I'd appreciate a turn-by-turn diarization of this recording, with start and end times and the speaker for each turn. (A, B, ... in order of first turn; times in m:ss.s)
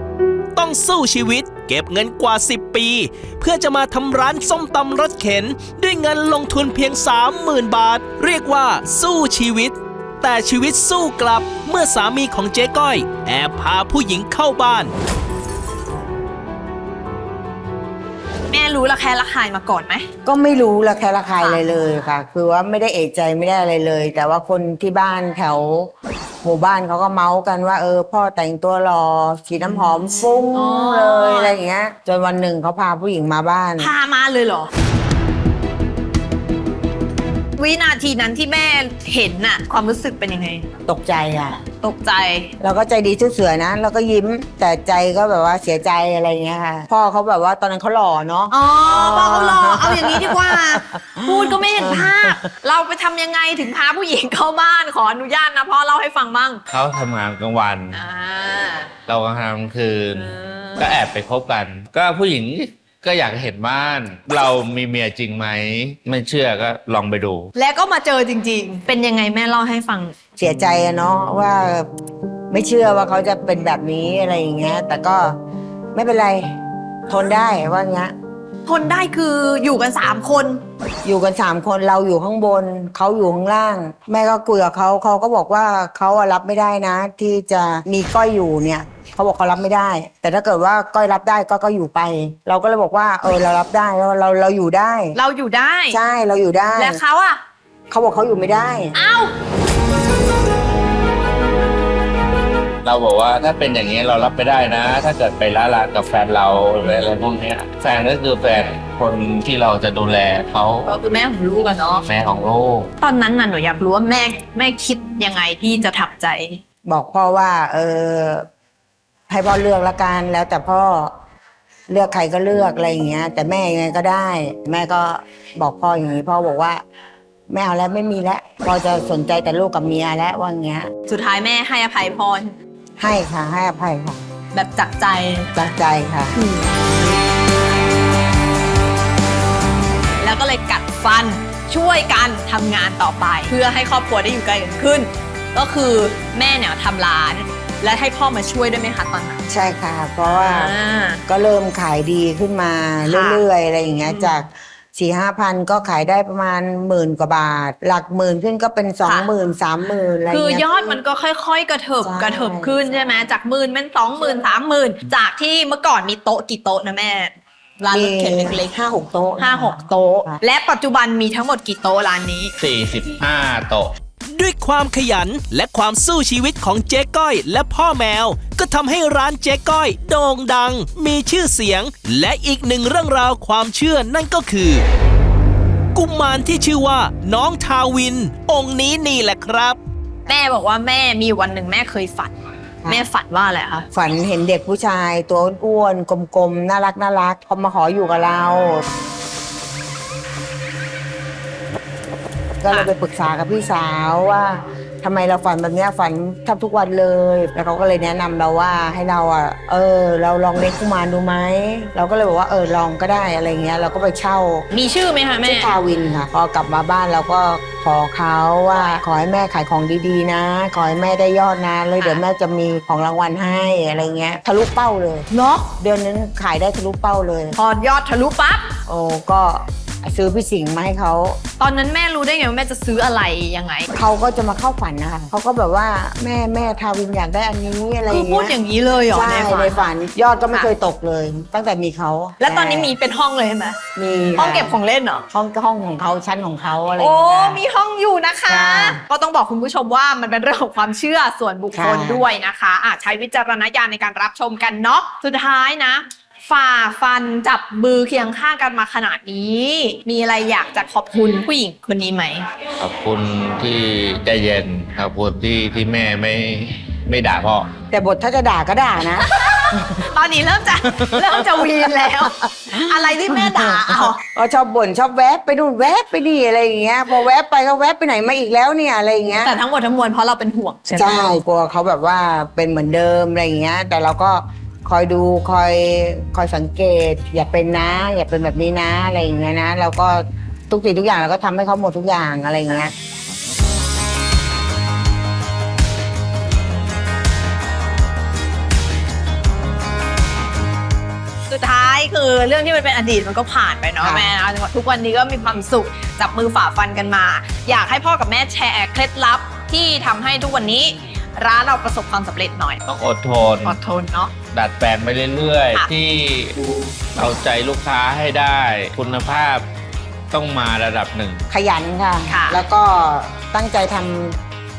0:00.6-0:14.9 A
0:18.5-0:20.0 B
0:20.2-0:25.9 C
0:26.4-0:33.9 C
0:30.5-0:31.5 B
0:33.8-0:34.7 B
0:37.6-0:40.7 B
0:40.9-0:41.6 C
0:41.7-0:42.5 B
0:42.6-0:52.3 C
0:48.5-0:56.6 B
0:56.7-0:58.0 D
0:57.9-0:58.9 B
0:59.1-1:07.5 D
1:00.1-1:00.9 B
1:07.5-1:10.1 B
1:10.4-1:11.9 C
1:12.5-1:15.3 C
1:15.9-1:16.4 C
1:17.1-1:18.1 C
1:18.6-1:20.6 B
1:21.0-1:35.1 C
1:35.1-1:36.0 B
1:35.9-1:37.0 C
1:36.8-1:37.4 B
1:37.9-1:38.9 C
1:38.9-1:39.3 B
1:42.8-1:51.0 D
1:50.8-1:52.1 B
1:52.0-1:52.9 D
1:53.0-1:56.6 B
1:56.8-1:58.4 C
1:59.3-2:01.1 C
2:01.9-2:06.8 C
2:07.5-2:10.9 C
2:11.1-2:12.5 B
2:13.0-2:14.2 C
2:14.5-2:15.5 B
2:15.5-2:16.3 C
2:16.3-2:16.7 B
2:20.2-2:29.4 B
2:29.5-2:30.7 C
2:30.2-2:31.2 B
2:31.3-2:41.0 C
2:33.0-2:33.4 B
2:34.0-2:34.4 B
2:39.0-2:39.3 B
2:40.3-2:48.7 B
2:42.0-2:42.8 C
2:47.9-2:50.4 C
2:49.4-2:52.5 B
2:52.6-2:53.9 D
2:54.3-3:04.8 A
3:05.9-3:09.8 A
3:10.3-3:12.3 B
3:12.9-3:13.8 B
3:13.9-3:18.8 C
3:22.6-3:34.6 C
3:34.7-3:35.7 B
3:35.4-3:47.6 C
3:45.3-3:45.7 B
3:47.5-3:48.7 B
3:48.9-3:51.4 C
3:51.6-3:53.9 B
3:53.9-3:58.5 C
3:58.1-3:59.8 B
3:59.1-4:03.0 C
4:02.4-4:03.8 B
4:03.9-4:04.7 C
4:04.4-4:05.2 B
4:05.3-4:07.6 C
4:07.0-4:22.5 B
4:08.5-4:09.0 C
4:11.7-4:12.2 C
4:22.8-4:27.7 D
4:27.9-4:30.0 C
4:29.2-4:34.2 B
4:31.0-4:39.6 C
4:39.4-4:41.4 B
4:40.9-4:52.9 C
5:01.5-5:12.8 B
5:04.0-5:04.3 C
5:12.9-5:13.8 D
5:13.6-5:14.3 B
5:14.5-5:16.6 D
5:17.2-5:19.7 D
5:20.3-5:21.4 D
5:21.5-5:24.4 C
5:22.3-5:22.6 B